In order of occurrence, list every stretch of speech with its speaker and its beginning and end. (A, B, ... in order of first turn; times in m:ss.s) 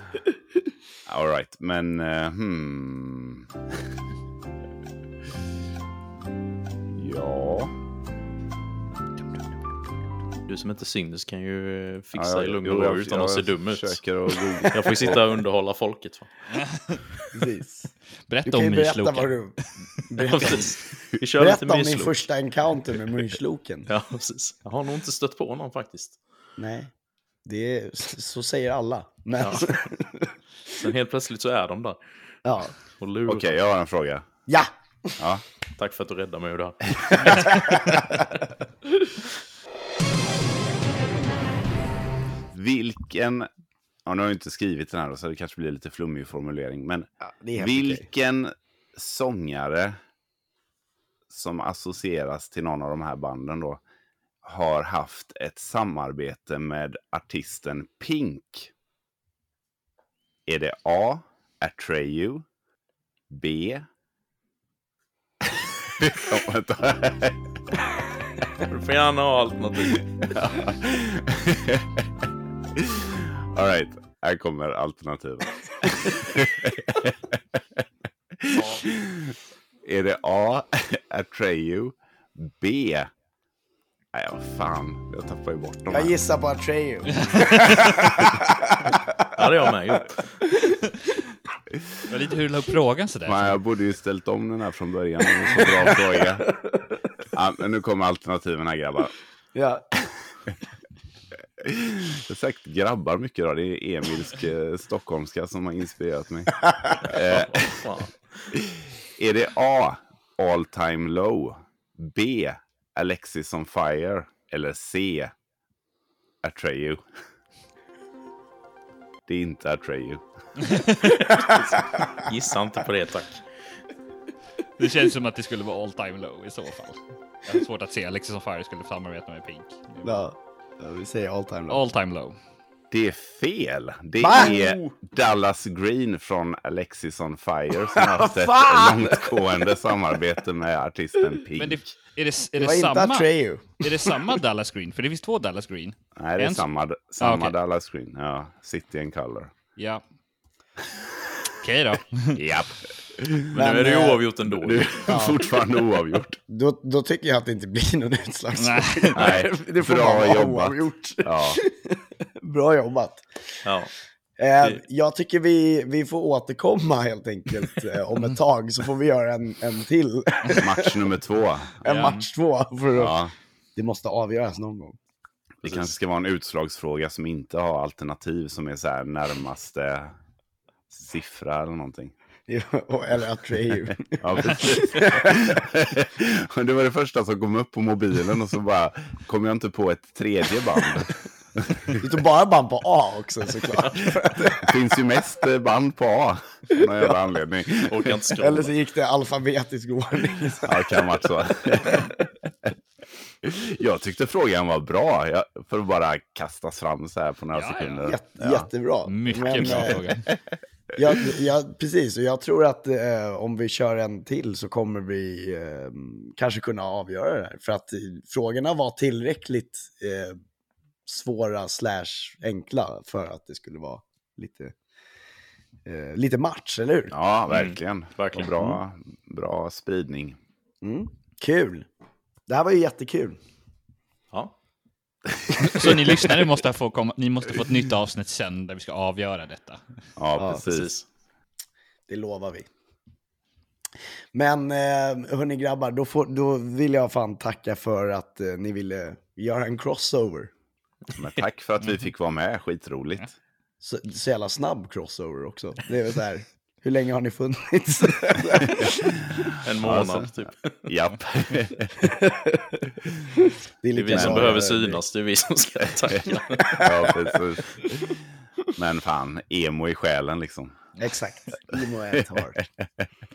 0:01.1-0:03.5 A
0:07.0-0:07.7 A
0:10.5-0:14.0 B
0:12.2-0:15.2 A
0:14.7-0:16.3 B
0:16.6-0:17.0 C
0:17.3-0:17.9 D
0:18.3-0:19.4 C
0:18.4-0:20.8 D
0:20.2-0:22.2 B
0:21.4-0:23.9 D
0:23.9-0:26.2 B
0:26.6-0:26.9 D
0:27.4-0:30.3 D
0:29.4-0:29.8 B
0:30.8-0:32.0 B
0:32.4-0:32.7 D
0:32.8-0:33.6 B
0:33.3-0:34.3 A
0:34.5-0:35.1 D
0:35.2-0:35.4 A
0:35.8-0:37.5 B
0:37.1-0:38.3 D
0:42.5-0:43.5 A
0:44.1-0:50.0 A
0:47.2-0:48.1 D
0:51.3-0:53.8 A
0:54.4-0:58.7 A
1:00.5-1:02.4 A
1:03.3-1:03.9 A
1:06.0-1:07.4 A
1:08.6-1:10.3 B
1:10.3-1:12.0 A
1:12.8-1:17.6 A
1:18.4-1:23.1 A
1:24.1-1:26.1 A
1:25.9-1:29.4 D
1:27.2-1:28.0 C
1:29.4-1:30.2 B
1:32.1-1:33.6 C
1:33.3-1:36.5 A
1:36.5-1:36.8 D
1:37.3-1:39.1 A
1:39.6-1:39.8 D
1:41.6-1:47.7 A
1:47.1-1:48.1 B
1:48.6-1:55.3 A
1:56.4-1:57.0 A
1:59.3-2:00.2 A
2:01.3-2:03.4 B
2:04.8-2:10.3 C
2:10.0-2:11.8 D
2:11.7-2:12.4 C
2:12.9-2:21.9 A
2:14.2-2:14.9 D
2:18.0-2:19.4 D
2:21.5-2:23.3 C
2:22.6-2:24.4 D
2:23.8-2:26.6 C
2:26.2-2:29.5 A
2:27.2-2:27.6 C
2:29.8-2:30.0 C
2:31.6-2:32.4 C
2:32.4-2:33.5 A
2:33.5-2:35.0 B
2:33.6-2:34.3 D
2:34.6-2:36.4 A
2:35.0-2:35.5 D
2:36.5-2:43.6 D
2:38.6-2:39.4 C
2:39.2-2:41.6 A
2:43.6-2:43.9 B
2:44.4-2:51.0 D
2:50.5-2:51.8 A
2:51.8-2:53.2 D
2:51.9-2:52.2 C
2:51.9-2:52.3 B
2:53.0-2:53.3 A
2:53.8-2:55.0 D
2:55.6-3:00.2 A
2:55.6-2:56.0 B
3:00.9-3:02.1 A
3:02.5-3:05.6 D
3:04.1-3:12.0 A
3:12.0-3:14.9 D
3:14.0-3:18.1 A
3:16.8-3:17.1 D
3:17.8-3:18.7 B
3:18.4-3:22.1 D
3:20.6-3:22.1 A
3:23.4-3:28.7 A
3:27.5-3:28.0 C
3:28.0-3:30.1 D
3:29.1-3:30.3 C
3:29.6-3:29.9 A
3:31.0-3:40.4 D
3:41.1-3:44.7 D
3:45.9-3:47.1 D
3:47.1-3:50.4 A
3:47.5-3:48.8 B
3:50.8-3:51.9 D
3:52.5-3:53.4 D
3:55.6-3:59.8 C
4:00.2-4:00.9 A
4:00.5-4:01.1 B
4:02.1-4:02.7 D
4:04.3-4:10.5 D
4:11.1-4:13.3 A
4:13.8-4:19.3 D
4:18.8-4:20.3 A
4:19.6-4:20.9 B
4:20.8-4:22.1 A
4:22.0-4:22.8 D
4:23.8-4:25.0 D
4:24.0-4:26.8 B
4:24.1-4:24.5 A
4:26.6-4:26.9 D
4:26.8-4:28.2 A
4:28.8-4:30.8 A
4:31.0-4:32.7 D